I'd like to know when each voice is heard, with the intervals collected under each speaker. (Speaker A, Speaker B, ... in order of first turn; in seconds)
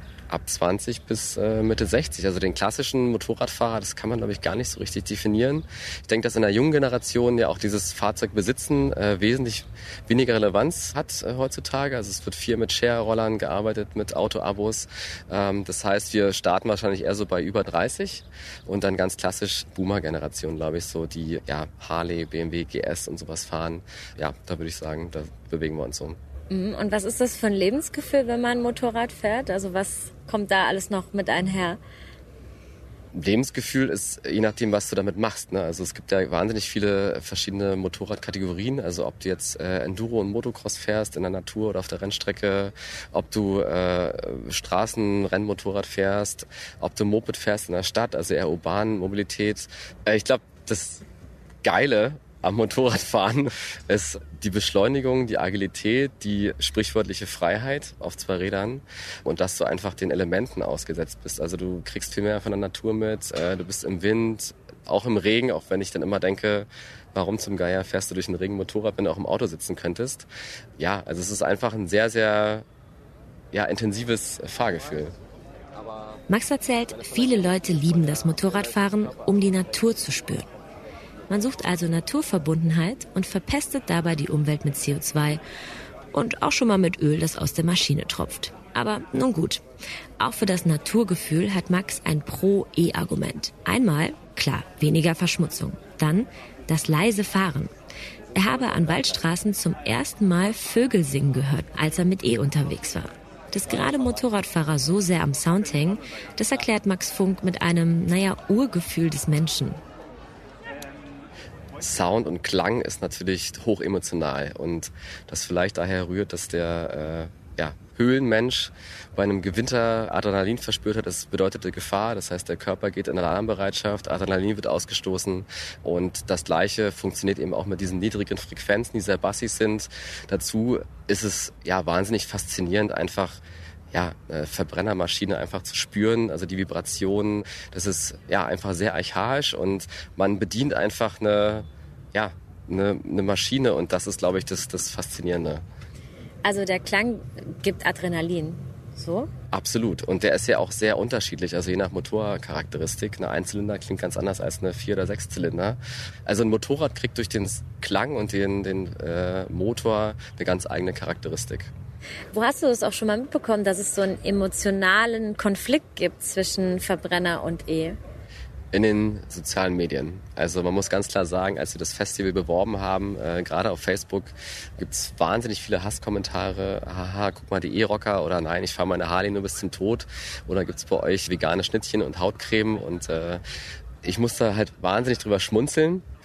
Speaker A: 0.3-26.2, 33.1-51.0, 51.6-70.2, 70.8-72.6, 73.5-75.1, 111.8-133.4, 133.9-145.6, 149.5-161.7, 168.7-183.4, 184.0-186.0
Speaker B: 26.5-31.8, 146.4-149.3, 162.3-168.0
Speaker C: 76.3-80.5, 81.3-85.4, 86.1-89.6, 90.2-97.7, 98.3-109.8